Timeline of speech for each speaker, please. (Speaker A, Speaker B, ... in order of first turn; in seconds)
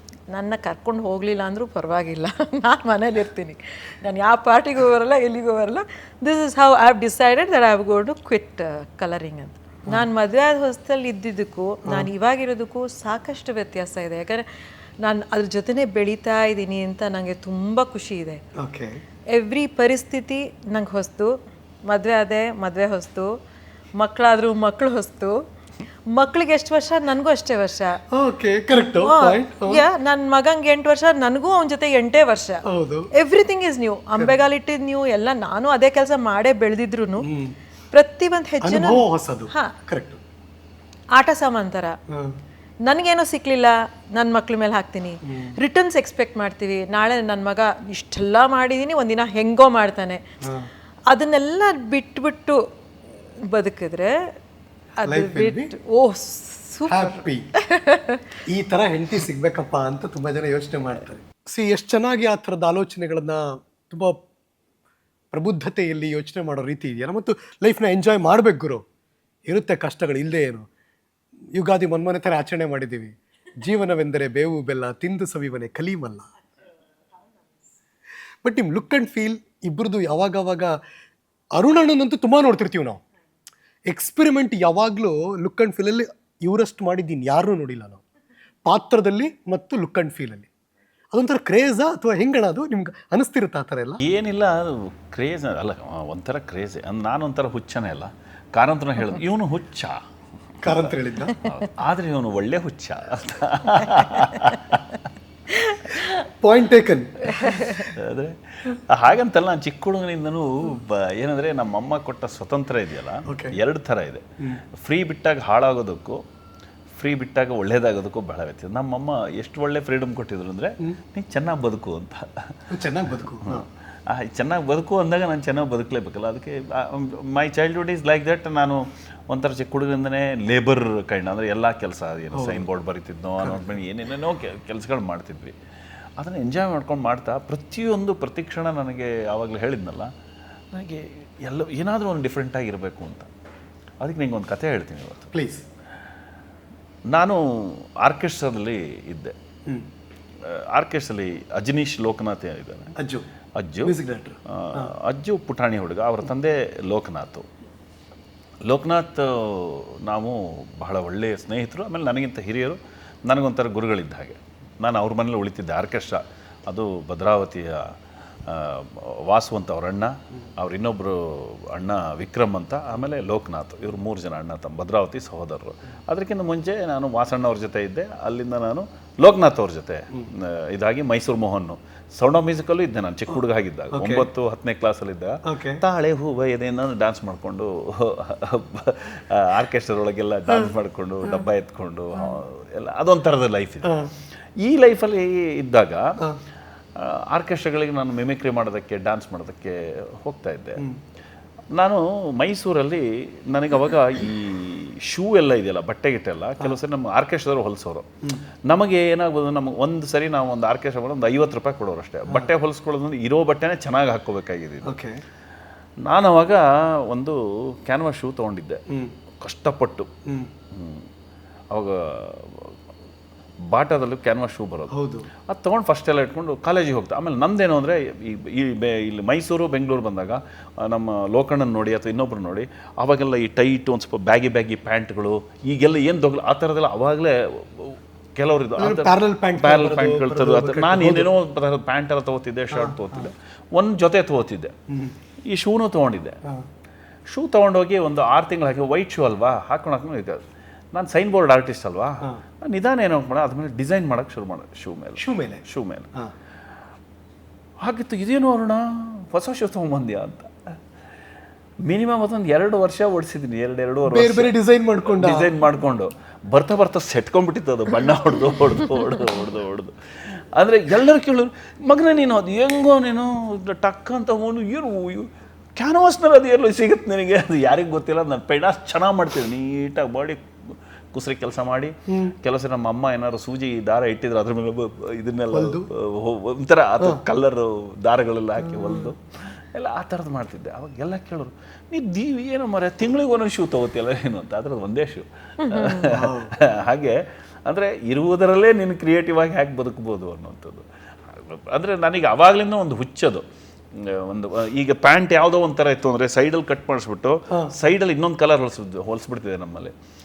Speaker A: 0.3-14.5, 15.0-18.4, 19.3-21.3, 21.9-23.3, 24.0-25.4, 26.1-28.0, 29.0-32.6, 33.1-37.3, 37.9-39.7, 41.2-41.9, 42.9-50.2, 51.1-52.6, 53.4-54.2, 55.0-58.2, 105.5-106.1, 107.4-107.9, 295.6-296.0
Speaker B: 18.6-19.0, 28.1-29.9, 32.7-33.1, 37.2-37.5, 38.6-40.2, 45.3-45.5, 50.4-50.7, 55.1-55.7, 56.9-57.5, 58.5-64.2, 65.3-68.8, 69.5-70.7, 71.6-76.3, 78.4-80.8, 81.6-83.0, 83.9-88.0, 88.7-90.5, 91.1-94.0, 100.6-101.4, 106.4-107.5, 113.3-113.5, 122.7-123.7, 132.3-132.7, 133.4-133.7, 145.3-145.6, 153.0-153.3, 153.8-154.9, 183.9-184.3, 185.5-185.8, 193.8-194.1, 214.8-215.2, 224.9-225.3, 238.8-241.3, 242.7-243.3, 244.9-245.1, 255.2-255.6, 264.1-265.5, 282.1-282.4, 285.5-285.9, 288.7-289.1, 296.0-296.5
Speaker C: 94.0-100.0, 100.7-104.8, 107.4-114.2, 114.8-116.2, 117.0-135.6, 136.2-140.1, 140.7-143.3, 144.0-145.3, 147.1-149.3, 150.5-152.9, 153.6-154.0, 154.5-157.5, 158.7-167.9, 168.5-193.9, 194.6-196.0, 197.0-200.8, 201.7-208.1, 208.7-214.9, 216.1-218.8, 219.4-220.1, 220.7-221.1, 221.7-222.8, 223.7-224.9, 225.5-244.7, 245.5-246.4, 247.3-250.4, 250.9-256.1, 257.8-260.7, 261.9-303.4, 304.0-309.9